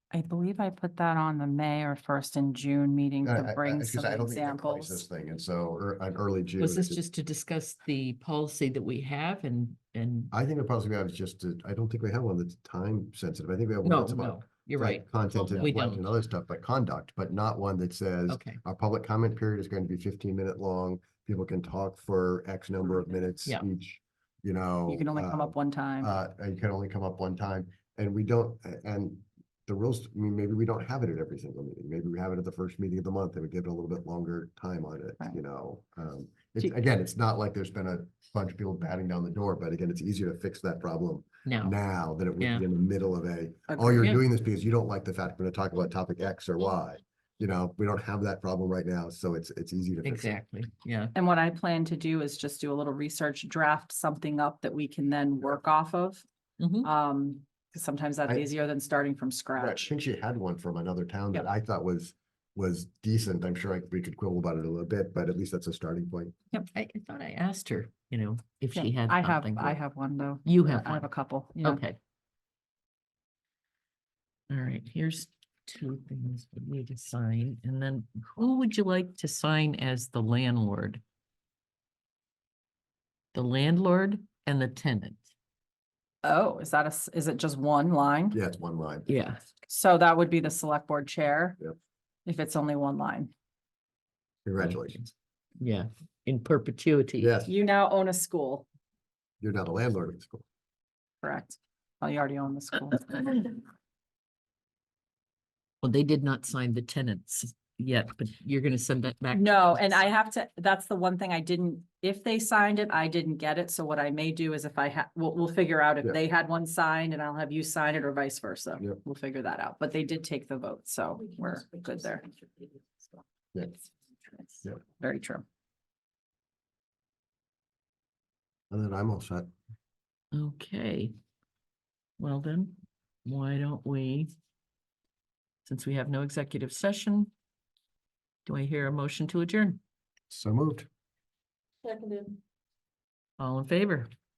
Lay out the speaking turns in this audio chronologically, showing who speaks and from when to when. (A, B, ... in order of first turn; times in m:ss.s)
0:00.1-0:05.1 A
0:03.2-0:07.0 B
0:06.6-0:10.3 C
0:10.3-0:50.4 B
0:13.8-0:16.0 C
0:18.3-0:18.6 C
0:24.9-0:26.1 A
0:41.5-0:41.8 C
0:42.4-0:42.7 C
0:43.7-0:44.2 A
0:50.0-0:51.2 C
0:51.2-0:56.2 A
0:56.6-0:56.9 C
0:56.8-0:59.9 A
0:59.6-1:06.4 B
1:06.7-1:09.8 C
1:08.7-1:11.8 A
1:10.5-1:11.1 C
1:11.6-1:12.0 C
1:14.5-1:21.0 C
1:23.3-1:25.3 C
1:26.2-1:28.4 A
1:28.3-1:29.1 B
1:29.1-1:29.4 C
1:29.7-1:31.6 A
1:32.3-1:33.3 A
1:34.5-1:35.0 B
1:34.6-1:37.3 C
1:37.2-1:37.5 B
1:37.5-1:38.7 A
1:39.4-1:40.4 B
1:41.2-1:43.6 A
1:45.8-1:50.1 C
1:49.3-2:02.4 A
2:04.3-2:05.4 A
2:08.7-2:09.5 B
2:10.3-2:11.2 C
2:12.2-2:14.3 C
2:15.6-2:17.3 C
2:18.5-2:19.8 C
2:20.3-2:20.9 B
2:21.9-2:22.3 A
2:23.4-2:24.1 C